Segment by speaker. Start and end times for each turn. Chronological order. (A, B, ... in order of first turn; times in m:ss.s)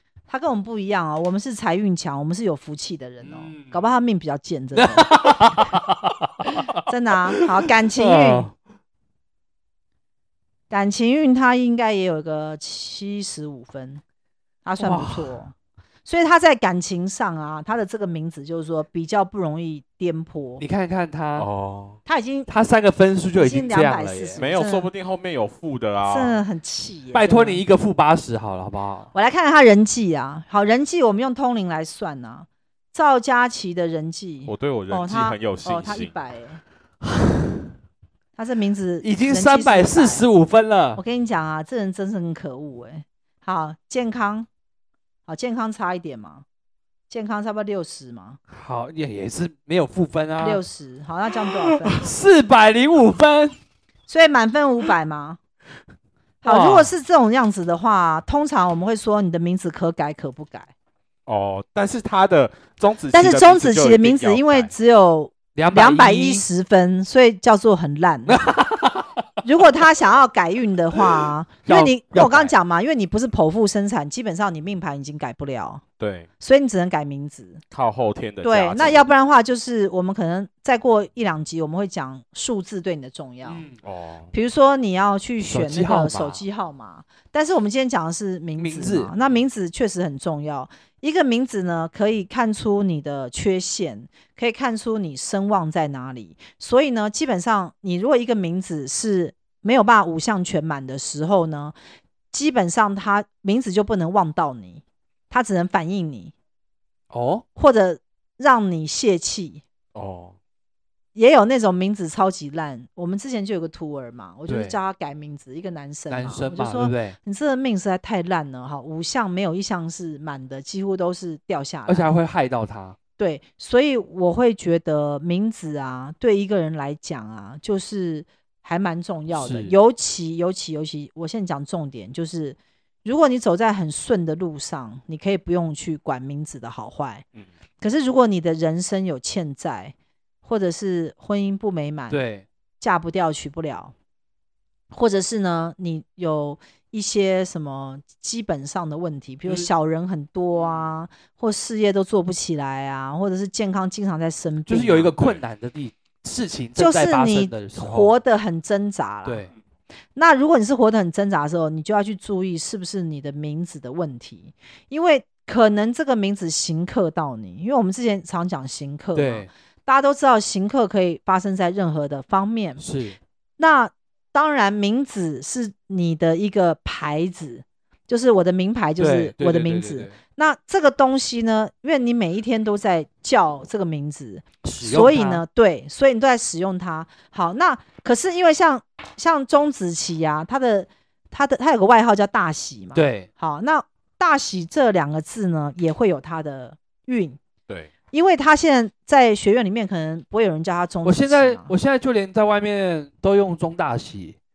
0:00.3-0:05.6 A
0:03.2-0:03.8 B
0:04.8-0:08.5 B
0:06.8-0:08.5 A
0:10.7-0:14.0 A
0:14.6-0:15.5 A
0:14.8-0:15.3 B
0:16.0-0:20.6 A
0:20.6-0:21.5 B
0:21.4-0:22.0 C
0:22.0-0:22.5 A
0:22.5-0:24.4 B
0:23.4-0:24.9 A
0:24.4-0:26.4 C
0:26.0-0:27.6 A
0:27.1-0:29.1 B
0:29.1-0:36.6 A
0:34.5-0:36.1 C
0:38.4-0:40.2 A
0:39.0-0:41.0 B
0:41.0-0:44.5 A
0:45.3-0:46.4 A
0:47.1-0:48.4 A
0:48.5-0:50.6 B
0:50.4-0:52.1 A
0:51.6-0:53.6 B
0:54.1-0:55.4 A
0:56.4-1:00.7 A
0:56.4-0:56.9 B
1:01.3-1:04.7 C
1:03.1-1:08.5 A
1:05.5-1:06.4 B
1:08.3-1:09.2 B
1:09.4-1:15.8 A
1:11.0-1:12.5 B
1:16.0-1:16.3 C
1:16.4-1:17.6 A
1:17.7-1:19.1 C
1:18.4-1:23.6 A
1:23.4-1:23.8 B
1:23.8-1:24.3 C
1:24.3-1:41.7 A
1:25.4-1:26.4 B
1:28.6-1:29.1 B
1:42.3-1:46.3 A
1:47.1-1:47.4 B
1:47.6-1:49.6 A
1:49.9-1:50.4 C
1:51.1-2:02.1 A
1:54.5-1:54.8 B
1:56.1-1:57.2 B
2:01.9-2:03.0 B
2:03.2-2:17.2 A
2:09.3-2:09.8 B
2:17.8-2:22.2 A
2:22.1-2:22.4 B
2:22.8-2:23.9 A
2:24.9-2:35.1 A
2:30.6-2:30.9 C
2:34.7-2:38.1 B
2:35.2-2:35.4 C
2:36.8-2:39.5 A
2:39.2-2:39.5 B
2:40.2-2:52.8 A
2:49.1-2:49.5 B
2:52.8-2:53.2 B
2:53.6-3:17.4 A
2:59.0-3:00.2 B
3:04.6-3:05.4 B
3:12.9-3:13.3 B
3:18.1-3:21.7 A
3:21.0-3:24.4 B